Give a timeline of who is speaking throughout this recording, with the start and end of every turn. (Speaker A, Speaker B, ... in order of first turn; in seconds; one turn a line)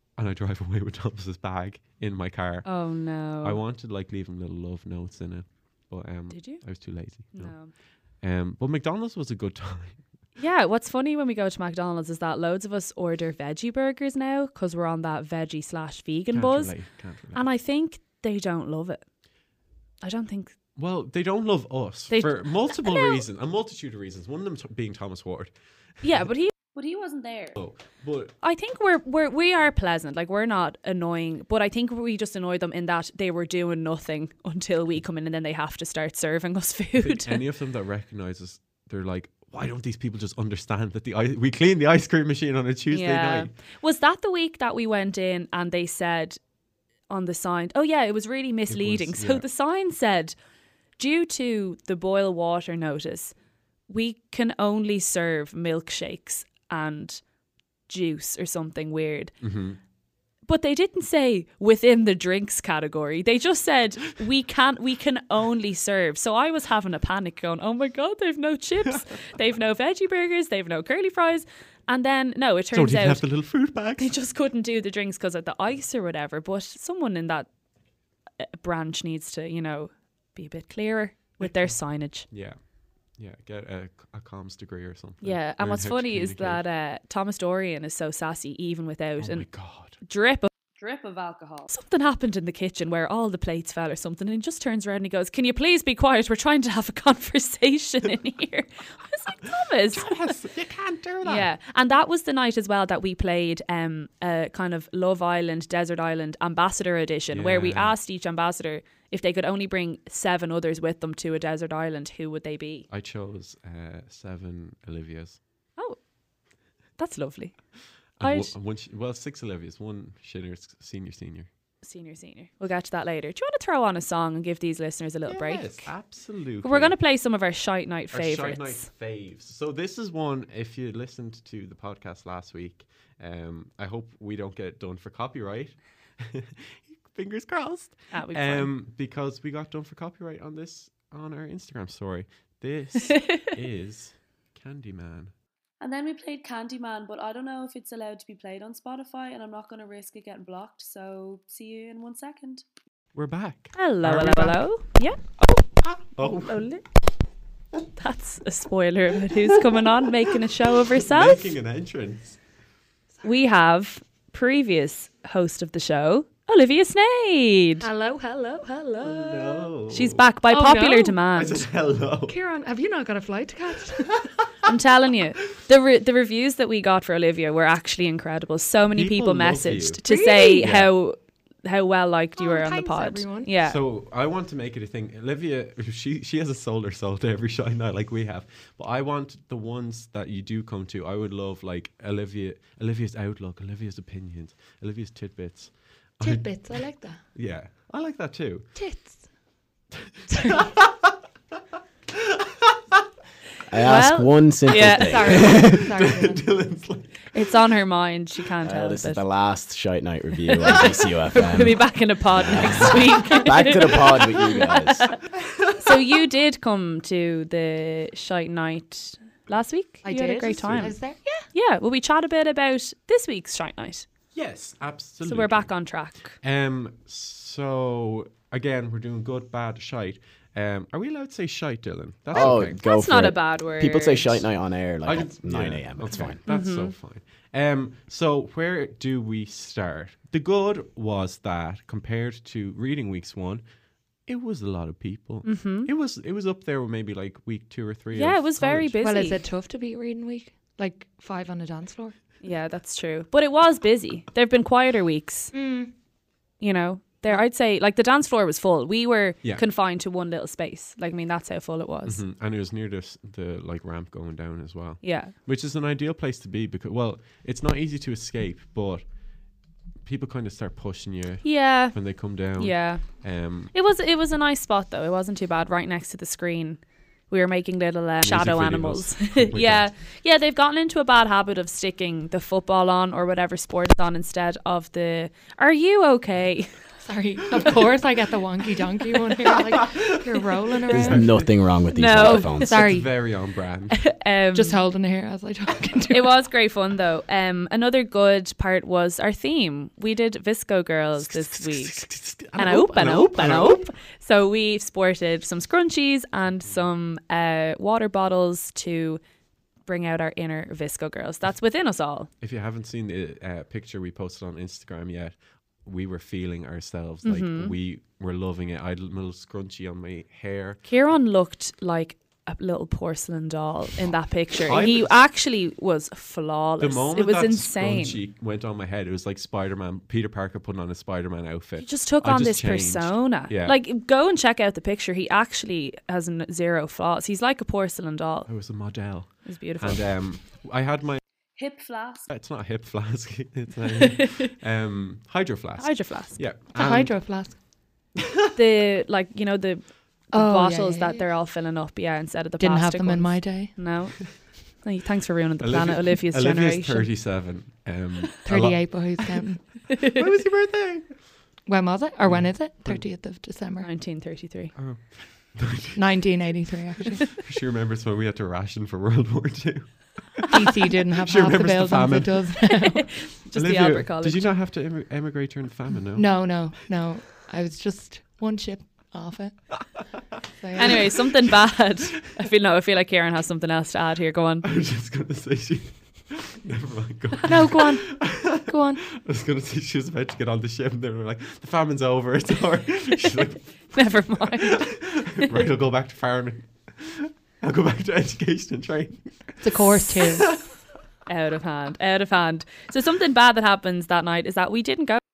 Speaker A: 0.1-2.8
Speaker B: 2.6-3.6
Speaker A: 3.4-7.6
Speaker B: 6.3-6.6
Speaker B: 7.3-7.7
Speaker A: 8.2-10.0
Speaker B: 10.4-16.8
Speaker A: 16.3-17.4
Speaker B: 17.3-19.0
Speaker B: 20.0-20.5
Speaker A: 20.8-25.5
Speaker B: 22.1-23.2
Speaker B: 26.0-26.5
Speaker C: 26.7-27.6
Speaker A: 27.6-28.3
Speaker B: 28.4-37.4
Speaker A: 37.0-43.5
Speaker B: 42.9-46.4
Speaker B: 47.1-50.4
Speaker A: 48.7-49.5
Speaker B: 51.0-53.3
Speaker B: 53.9-57.2
Speaker B: 57.9-59.3
Speaker A: 59.4-59.8
Speaker B: 60.5-73.2
Speaker A: 72.7-74.1
Speaker B: 74.0-77.5
Speaker B: 78.4-82.3
Speaker A: 81.4-81.7
Speaker A: 82.3-82.6
Speaker A: 83.2-86.6
Speaker B: 85.2-89.5
Speaker A: 89.2-90.0
Speaker B: 90.0-90.5
Speaker C: 90.8-91.7
Speaker B: 91.7-100.3
Speaker A: 99.9-101.5
Speaker B: 101.2-112.9
Speaker A: 107.3-107.9
Speaker A: 112.9-115.4
Speaker B: 117.0-117.5
Speaker A: 118.2-121.5
Speaker B: 118.2-118.5
Speaker B: 121.8-125.9
Speaker A: 125.3-127.0
Speaker B: 126.6-128.9
Speaker A: 128.1-145.3
Speaker B: 138.1-138.7
Speaker B: 143.1-143.5
Speaker C: 145.8-152.6
Speaker A: 153.1-154.6
Speaker B: 153.7-155.6
Speaker A: 155.8-156.6
Speaker B: 156.4-156.8
Speaker B: 158.0-161.6
Speaker A: 160.9-162.4
Speaker B: 163.2-167.9
Speaker D: 167.8-169.7
Speaker A: 169.0-170.2
Speaker B: 169.9-171.6
Speaker D: 170.5-171.2
Speaker A: 171.3-172.3
Speaker D: 172.3-174.2
Speaker B: 174.7-183.8
Speaker A: 178.9-180.0
Speaker D: 180.1-180.6
Speaker A: 180.6-180.9
Speaker D: 182.4-183.5
Speaker A: 183.6-198.7
Speaker D: 196.2-197.2
Speaker D: 198.7-199.2
Speaker A: 200.0-201.1
Speaker D: 200.3-200.6
Speaker A: 202.1-202.9
Speaker E: 203.7-205.9
Speaker B: 203.8-205.4
Speaker D: 204.8-206.4
Speaker A: 205.3-207.3
Speaker B: 207.3-209.2
Speaker E: 208.6-215.1
Speaker B: 210.5-215.2
Speaker A: 215.4-216.1
Speaker B: 215.8-220.9
Speaker D: 220.0-221.4
Speaker A: 220.6-220.9
Speaker B: 221.5-224.1
Speaker A: 224.3-225.7
Speaker B: 225.2-226.4
Speaker A: 226.4-232.8
Speaker E: 232.3-236.4
Speaker B: 232.3-234.4
Speaker A: 235.0-243.6
Speaker B: 236.4-236.9
Speaker A: 244.3-249.0
Speaker B: 245.4-245.9
Speaker B: 248.1-249.4
Speaker D: 249.0-252.1
Speaker B: 252.4-255.5
Speaker D: 255.5-255.9
Speaker B: 256.6-262.2
Speaker A: 262.0-269.0
Speaker B: 265.0-265.3
Speaker A: 270.0-273.7
Speaker B: 271.4-271.9
Speaker B: 272.6-273.0
Speaker B: 273.7-286.7
Speaker A: 278.2-279.9
Speaker D: 287.0-291.4
Speaker A: 289.7-294.0
Speaker E: 290.9-292.8
Speaker B: 291.9-292.7
Speaker D: 292.2-293.1
Speaker B: 293.9-294.8
Speaker D: 294.5-296.3
Speaker B: 296.1-302.1
Speaker A: 301.3-303.9
Speaker B: 302.6-309.2
Speaker B: 309.9-312.3
Speaker A: 312.4-320.8
Speaker B: 317.2-317.7
Speaker B: 320.9-328.2
Speaker A: 324.6-325.1
Speaker A: 326.8-333.8
Speaker B: 331.8-338.5
Speaker A: 338.5-341.2
Speaker B: 339.4-340.0
Speaker C: 341.6-342.3
Speaker A: 342.3-347.1
Speaker B: 344.0-344.5
Speaker B: 345.8-346.4
Speaker D: 346.7-347.6
Speaker A: 348.2-348.5
Speaker B: 348.5-357.1
Speaker D: 350.3-351.2
Speaker D: 352.6-353.8
Speaker A: 355.6-359.4
Speaker D: 358.4-359.8
Speaker A: 360.0-361.2
Speaker D: 361.6-363.9
Speaker A: 362.2-363.0
Speaker B: 363.8-364.7
Speaker A: 364.7-366.0
Speaker D: 365.9-367.4
Speaker A: 367.3-372.5
Speaker D: 370.5-373.1
Speaker B: 372.7-374.5
Speaker A: 373.5-376.5
Speaker D: 376.1-381.1
Speaker B: 380.8-384.6
Speaker A: 384.6-400.6
Speaker D: 387.4-389.0
Speaker B: 393.9-395.6
Speaker D: 399.6-400.5
Speaker B: 401.3-405.2